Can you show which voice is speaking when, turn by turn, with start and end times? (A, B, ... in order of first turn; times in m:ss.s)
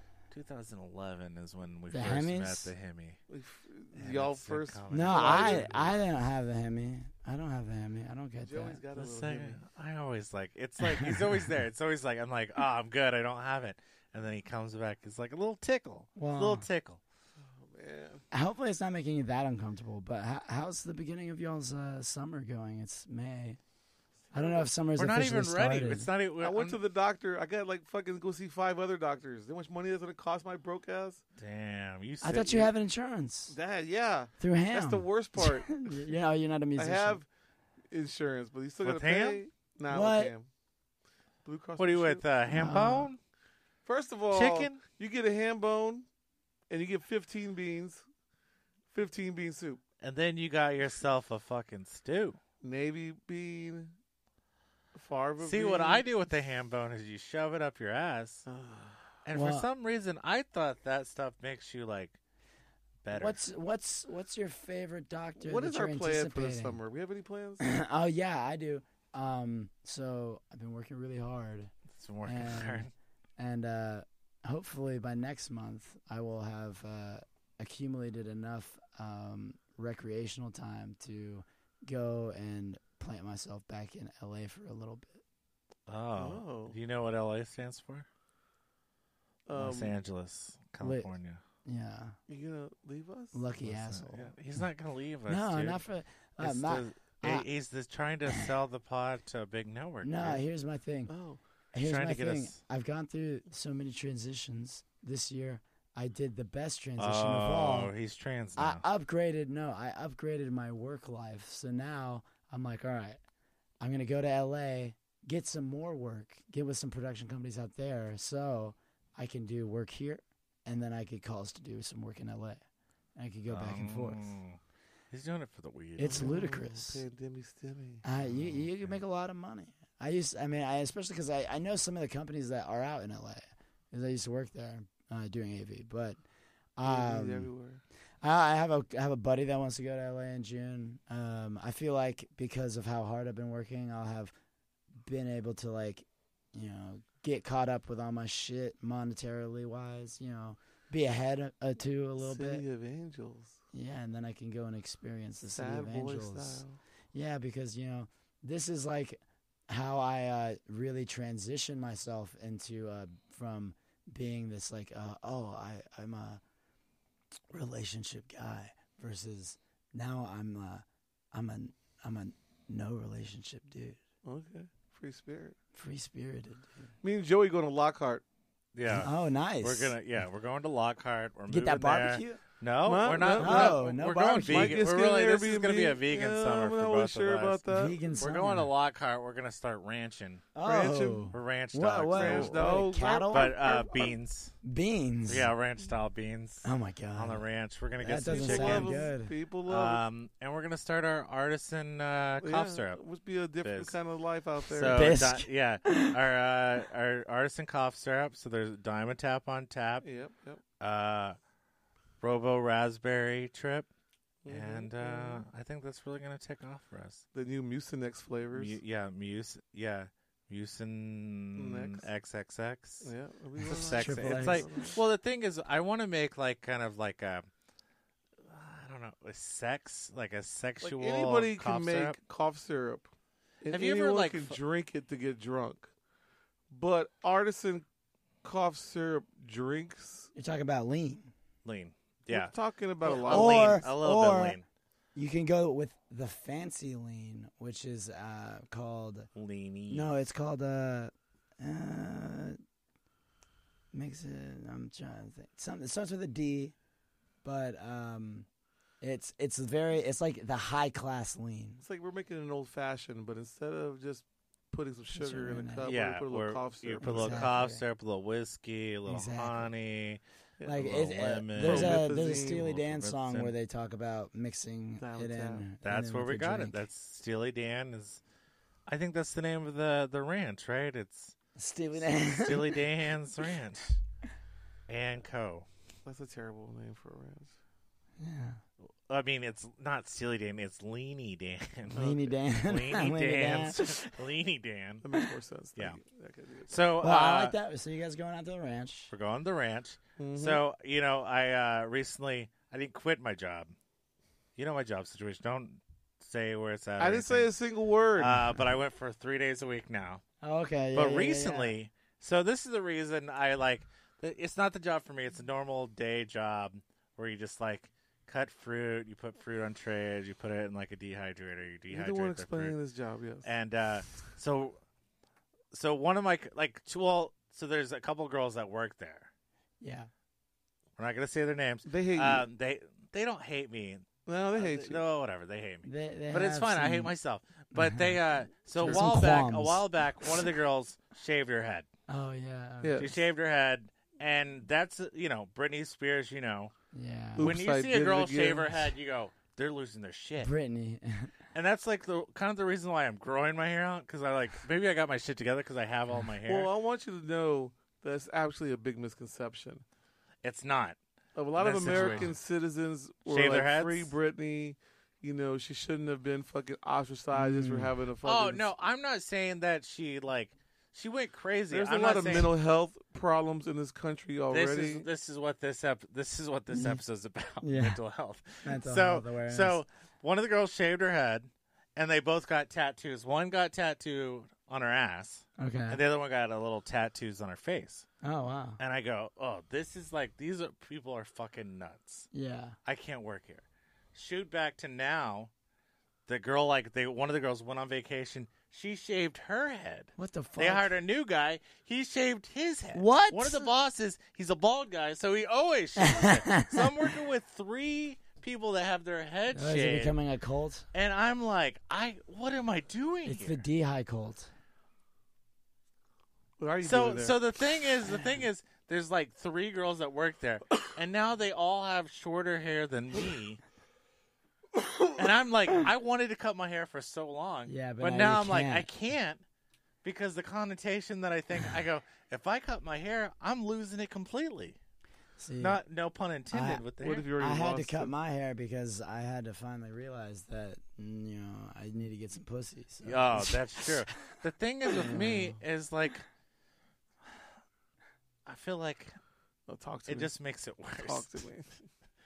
0:00.3-0:03.2 A
0:01.9-0:02.7 B
0:03.3-0:05.8 C
0:03.9-0:06.0 A
0:04.9-0:08.8 B
0:08.4-0:09.6 C
0:09.0-0:17.0 A
0:10.8-0:11.5 B
0:16.2-0:16.7 B
0:17.4-0:18.2 C
0:18.3-0:23.6 B
0:24.3-0:24.7 C
0:24.3-0:26.1 B
0:25.0-0:26.8 A
0:26.4-0:31.2 C
0:31.4-0:32.6 A
0:32.2-0:33.6 B
0:33.5-0:36.1 C
0:34.4-0:37.2 B
0:36.8-0:37.3 C
0:37.9-0:40.5 C
0:38.8-0:39.4 A
0:39.9-0:40.3 B
0:41.4-0:42.2 C
0:41.8-0:43.2 A
0:42.5-0:43.1 B
0:43.9-0:46.1 C
0:44.3-0:44.8 A
0:46.7-0:48.0 C
0:48.9-0:49.8 C
0:50.0-0:52.4 A
0:52.6-0:53.9 C
0:54.9-0:56.1 C
0:55.4-0:58.4 A
0:58.5-0:59.0 C
0:59.2-1:02.2 A
0:59.3-0:59.7 B
1:03.0-1:03.4 A
1:03.1-1:06.8 B
1:05.4-1:07.6 C
1:07.6-1:11.7 B
1:12.0-1:12.9 A
1:12.2-1:25.2 B
1:25.9-1:28.1 A
1:26.2-1:26.8 C
1:29.5-1:30.0 C
1:29.6-1:31.4 A
1:30.8-1:31.1 B
1:31.6-1:32.2 B
1:32.3-1:33.4 C
1:33.3-1:34.3 B
1:33.6-1:35.8 A
1:35.3-1:37.5 B
1:36.4-1:40.4 A
1:40.0-1:41.1 B
1:41.1-1:41.4 C
1:41.7-1:47.9 B
1:41.8-1:42.6 A
1:47.0-1:48.8 A
1:48.6-1:53.2 B
1:53.8-2:02.6 B
2:03.2-2:04.3 B
2:03.5-2:04.6 A
2:05.1-2:06.3 A
2:06.0-2:07.0 B
2:06.1-2:08.0 C
2:08.0-2:16.2 B
2:08.2-2:08.9 A
2:16.8-2:17.5 B
2:16.8-2:17.8 C
2:18.2-2:24.3 B
2:25.0-2:32.6 B
2:32.2-2:33.6 C
2:33.7-2:36.6 B
2:35.5-2:36.8 C
2:37.1-2:46.4 B
2:47.5-2:54.0 B
2:54.2-2:55.6 C
2:55.8-2:56.9 B
2:57.0-2:58.2 C
2:58.8-3:07.6 A
2:58.9-3:00.0 B
3:01.5-3:02.4 B
3:02.8-3:03.8 C
3:03.4-3:04.8 B
3:04.4-3:08.0 C
3:07.7-3:08.7 B
3:08.2-3:10.4 A
3:10.6-3:13.6 B
3:10.6-3:11.3 C
3:11.3-3:14.5 A
3:12.1-3:14.2 C
3:14.6-3:15.5 B
3:15.3-3:19.1 A
3:16.6-3:17.5 B
3:18.0-3:19.3 B
3:18.1-3:20.0 C
3:19.7-3:23.0 A
3:22.4-3:25.1 C
3:23.6-3:24.0 A
3:24.7-3:30.1 A
3:24.9-3:26.2 B
3:30.0-3:30.6 C
3:30.8-3:31.4 A
3:32.2-3:33.9 A
3:34.4-3:35.4 C
3:34.5-3:37.2 A
3:37.3-3:38.8 C
3:38.5-3:43.1 A
3:41.6-3:42.1 C
3:43.0-3:45.0 C
3:43.6-3:47.5 A
3:43.7-3:44.7 B
3:48.5-3:52.2 A
3:50.8-3:53.1 C
3:53.6-3:55.9 C
3:53.7-3:54.6 A
3:56.7-3:57.8 C
3:58.4-4:00.3 C
4:00.4-4:01.3 B
4:01.6-4:04.7 A
4:02.3-4:03.8 C
4:03.3-4:04.6 B
4:05.2-4:09.3 B
4:09.4-4:10.1 A
4:09.9-4:12.6 B
4:13.9-4:16.8 B
4:17.4-4:18.5 B
4:19.0-4:21.8 B
4:21.8-4:27.5 C
4:25.1-4:25.9 B
4:25.8-4:30.2 A
4:27.0-4:27.8 B
4:29.1-4:29.7 B
4:30.6-4:30.9 C
4:30.7-4:36.8 B
4:30.8-4:33.6 A
4:31.6-4:32.7 C
4:35.0-4:35.7 C
4:35.8-4:38.2 A
4:38.9-4:41.4 A
4:41.6-4:42.8 B
4:42.0-4:44.0 A
4:44.9-4:45.7 A
4:46.0-4:47.5 C
4:48.2-4:48.6 B
4:49.1-4:52.1 A
4:51.9-4:52.3 C
4:52.0-4:54.0 B
4:52.6-4:55.0 A
4:55.0-4:56.9 C
4:56.7-4:57.6 A
4:57.0-4:59.1 B
4:59.1-5:03.7 A
5:00.2-5:00.6 C
5:04.6-5:07.5 A
5:07.0-5:08.4 C
5:08.2-5:10.2 A
5:10.4-5:11.7 B
5:11.0-5:22.8 A
5:21.9-5:23.5 C
5:23.4-5:24.8 A
5:25.7-5:29.3 A
5:29.8-5:30.1 B
5:31.0-5:41.9 A
5:31.8-5:32.5 C
5:34.3-5:35.0 C
5:35.8-5:37.1 B
5:37.7-5:38.2 B
5:38.8-5:39.8 B
5:38.8-5:39.2 C
5:42.1-5:43.1 B
5:42.8-5:43.1 C
5:43.0-5:46.7 A
5:46.9-5:47.6 B
5:47.4-5:48.9 C
5:47.4-5:50.5 A
5:50.4-5:51.3 B
5:51.5-5:56.7 A
5:56.5-5:59.8 C
6:00.4-6:01.0 A
6:01.4-6:08.7 C
6:01.6-6:02.4 A
6:01.9-6:02.3 B
6:03.3-6:04.1 A
6:07.3-6:07.9 B
6:08.2-6:12.5 A
6:11.7-6:15.1 C
6:14.5-6:28.1 A
6:16.7-6:17.0 B
6:17.6-6:18.0 B
6:18.6-6:19.8 B
6:25.6-6:26.0 B
6:28.2-6:28.8 B
6:28.8-6:32.3 A
6:32.3-6:32.8 B
6:32.8-6:35.5 A
6:36.3-6:50.2 A
6:40.2-6:40.9 B
6:42.9-6:43.7 B
6:46.0-6:47.1 B
6:49.5-6:50.9 B
6:50.9-6:53.6 A
6:53.2-6:54.5 B
6:56.6-6:57.4 C
6:56.8-7:03.6 A
7:05.2-7:09.4 A
7:07.7-7:08.9 B
7:10.0-7:14.8 A
7:15.4-7:15.8 B
7:15.6-7:17.3 A
7:16.5-7:24.0 B
7:17.0-7:18.1 C
7:23.0-7:26.3 A
7:24.9-7:25.6 B
7:28.5-7:29.1 A
7:29.7-7:30.3 C
7:30.1-7:31.4 A
7:31.0-7:31.7 C